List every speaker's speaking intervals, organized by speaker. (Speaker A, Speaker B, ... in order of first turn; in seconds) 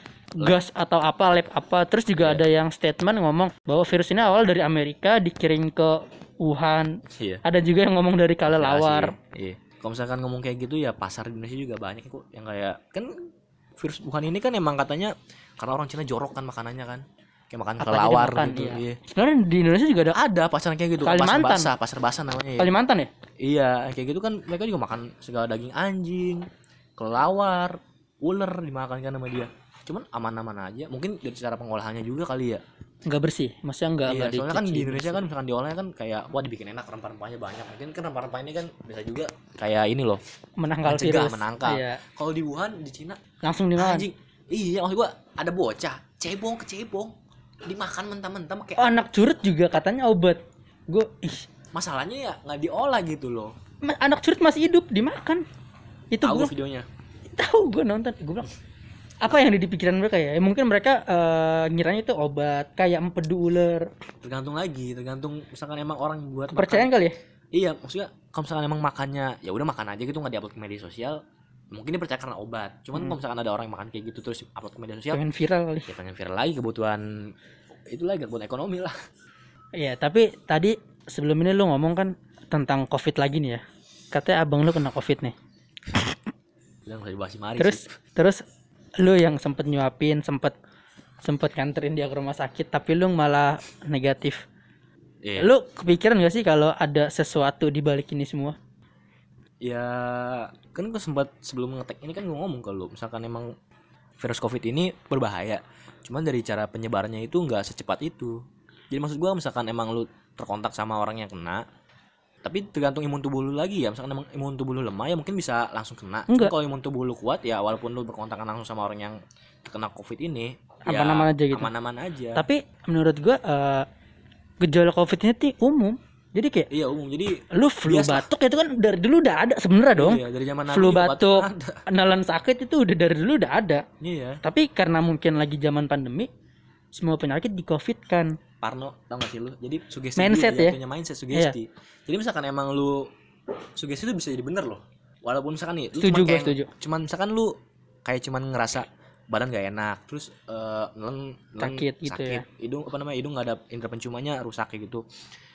Speaker A: 0.4-9.1, 17.8-20.2, 21.0-21.7, 22.6-23.1, 33.0-35.2, 40.6-42.0, 43.4-44.0, 48.8-51.5, 53.8-55.4, 56.1-56.5, 57.3-58.5, 59.2-63.9, 66.5-67.2, 75.1-75.9, 79.8-85.3, 87.6-88.4, 89.0-90.5, 91.2-94.4, 95.4-98.5, 120.9-121.7, 122.3-123.8, 124.6-126.7, 127.5-133.8, 134.4-136.3, 136.9-138.3, 140.2-140.8, 146.0-146.7, 151.6-152.4
Speaker B: 7.1-7.4, 8.4-13.2, 13.8-19.0, 20.1-22.7, 23.4-32.6, 34.1-40.2, 40.8-43.2, 43.8-47.1, 47.6-48.9, 51.7-53.5, 56.2-56.9, 64.2-66.9, 67.5-71.2, 71.7-75.2, 75.9-77.0, 77.9-78.9, 86.8-87.8, 95.2-95.5, 99.6-103.5, 104.2-108.4, 108.9-111.6, 112.4-122.4, 126.7-128.2, 129.9-131.8, 134.0-134.4, 138.6-143.1, 143.8-155.0